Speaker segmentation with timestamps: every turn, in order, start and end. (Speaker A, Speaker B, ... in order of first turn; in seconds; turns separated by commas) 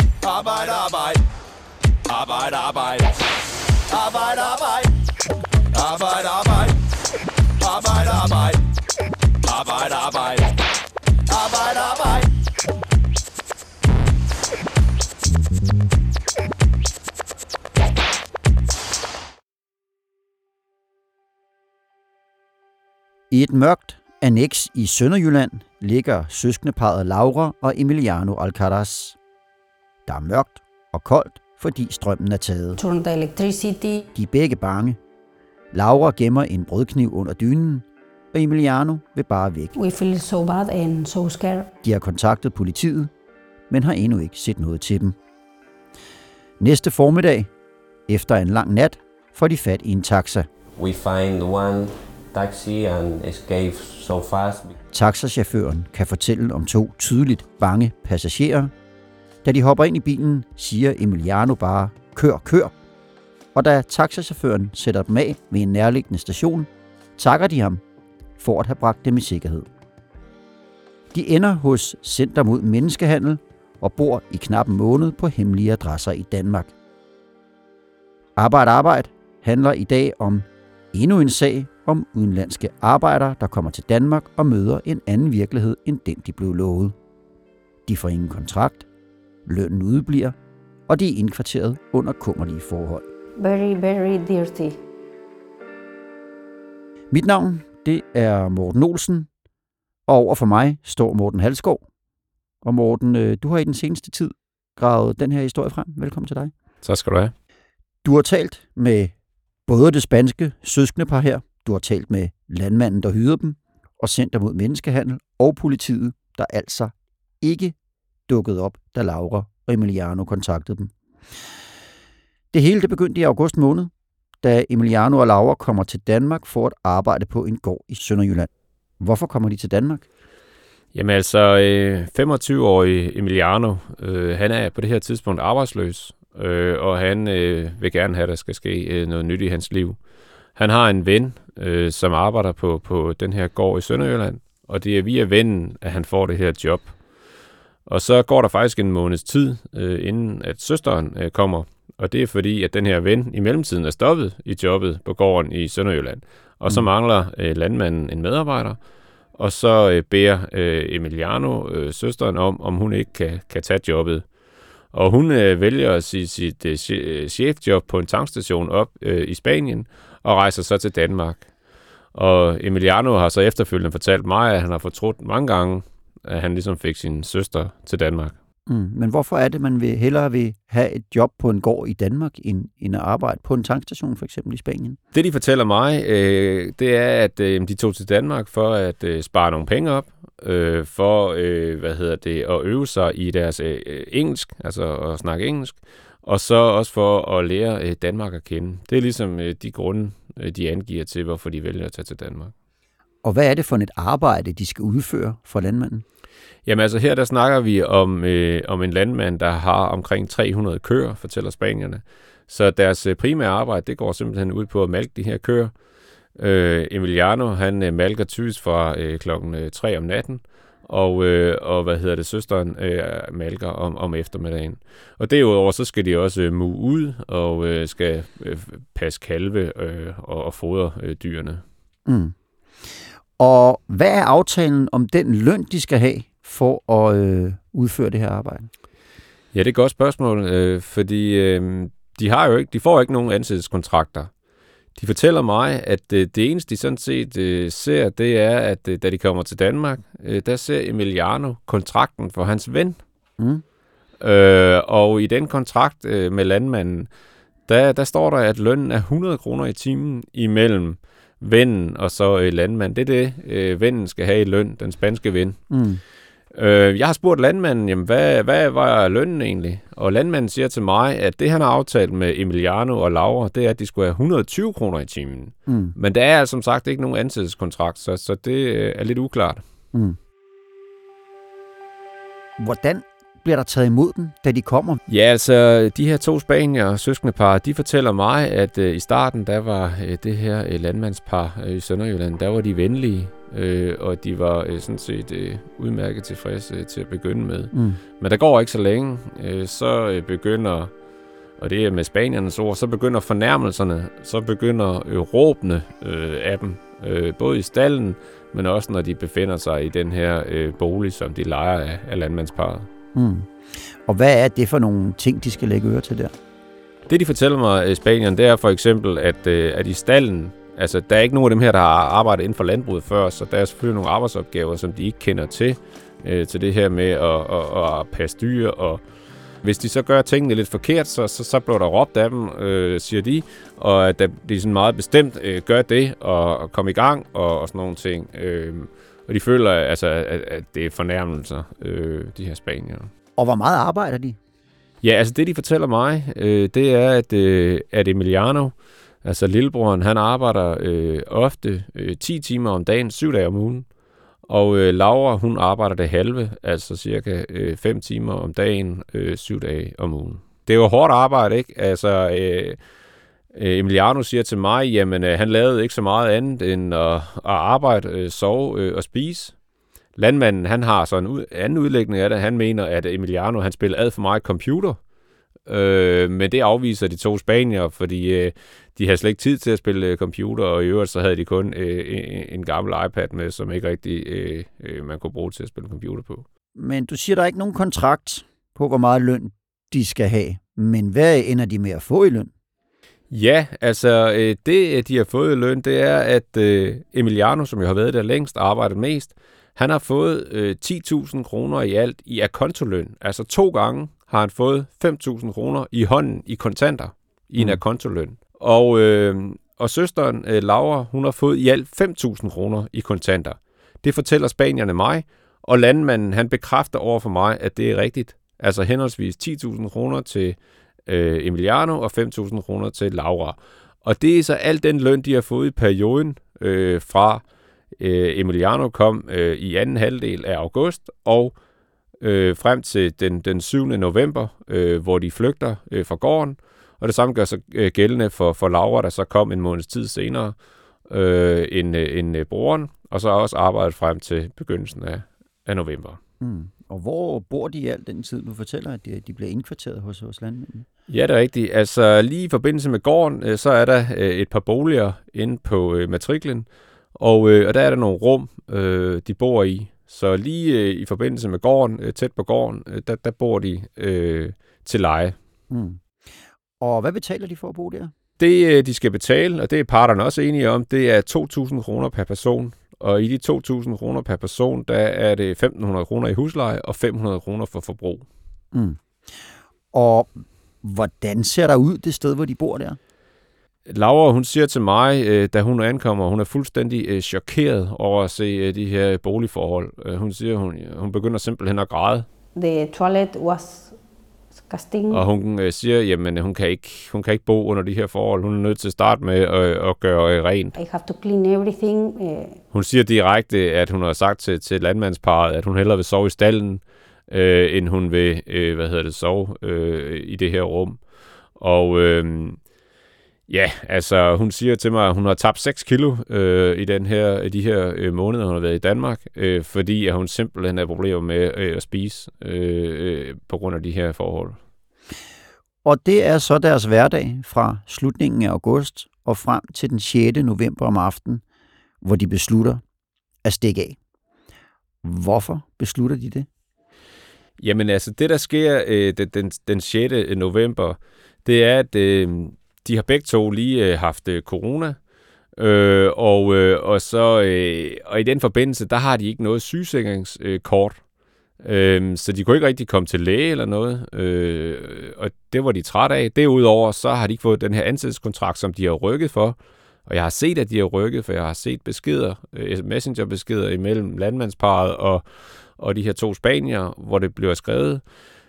Speaker A: 0.2-1.2, Speaker A: 2.1-3.1, Speaker A: 3.9-4.9, Speaker A: 5.7-6.8, Speaker A: 7.6-8.6, Speaker A: 9.4-10.5, Speaker A: 11.3-12.3, Speaker B: 23.3-29.2, Speaker B: 30.1-32.8, Speaker C: 32.8-34.0, Speaker B: 34.1-35.0, Speaker B: 35.7-39.7, Speaker C: 39.8-41.7, Speaker B: 41.8-43.1, Speaker B: 43.7-45.2, Speaker B: 46.6-47.5, Speaker B: 48.1-50.5, Speaker D: 50.8-54.7, Speaker B: 54.9-58.7, Speaker B: 59.4-62.7, Speaker B: 63.5-67.8, Speaker B: 68.4-69.7, Speaker B: 71.1-76.7, Speaker B: 78.3-86.9, Speaker B: 87.8-88.8, Speaker B: 89.5-90.3, Speaker B: 90.9-93.0, Speaker C: 93.4-94.8, Speaker B: 97.1-99.3, Speaker B: 100.1-101.8, Speaker B: 102.6-106.5, Speaker E: 106.8-107.3, Speaker B: 108.0-109.1, Speaker B: 109.7-117.7, Speaker B: 118.3-120.9, Speaker B: 122.5-123.9, Speaker B: 124.4-128.5, Speaker B: 129.0-130.1, Speaker E: 130.9-140.0, Speaker E: 140.6-146.9, Speaker E: 147.9-158.8, Speaker E: 159.4-164.2, Speaker E: 164.9-171.4, Speaker E: 172.1-178.3, Speaker B: 178.7-185.0, Speaker E: 185.1-202.5, Speaker B: 203.2-206.0, Speaker E: 206.7-215.7, Speaker E: 216.4-231.6, Speaker B: 232.1-232.3, Speaker B: 233.4-238.7, Speaker E: 239.5-244.3, Speaker E: 244.9-253.0, Speaker B: 253.4-253.6, Speaker E: 254.2-257.1, Speaker E: 257.7-265.6, Speaker B: 265.7-266.0, Speaker E: 266.5-279.6, Speaker B: 275.7-275.9, Speaker B: 282.6-285.0, Speaker E: 285.1-300.9, Speaker B: 297.7-298.0, Speaker E: 301.6-312.9, Speaker B: 313.1-316.3, Speaker E: 317.1-329.0, Speaker E: 329.6-343.1, Speaker B: 343.4-344.4, Speaker E: 345.0-353.9, Speaker E: 354.5-362.8, Speaker E: 363.5-369.5, Speaker E: 370.2-375.0, Speaker E: 375.6-386.4, Speaker B: 386.8-392.5, Speaker E: 393.3-427.4, Speaker E: 428.0-431.5, Speaker E: 432.2-440.6, Speaker E: 441.1-446.2, Speaker B: 446.4-450.9, Speaker E: 451.1-465.4, Speaker B: 465.7-466.0, Speaker B: 466.8-468.1, Speaker E: 468.4-478.2, Speaker B: 478.7-479.4, Speaker B: 479.9-483.0, Speaker E: 483.9-492.2, Speaker C: 492.5-494.0, Speaker C: 494.5-495.2, Speaker E: 495.1-500.8, Speaker C: 500.8-502.6, Speaker E: 502.7-511.0, Speaker E: 511.6-512.6, Speaker E: 513.5-524.6, Speaker B: 525.8-531.4, Speaker B: 532.0-532.8, Speaker B: 533.4-534.0, Speaker B: 535.0-536.5, Speaker E: 537.6-545.0, Speaker E: 545.6-551.0, Speaker E: 551.6-565.2, Speaker E: 565.8-568.0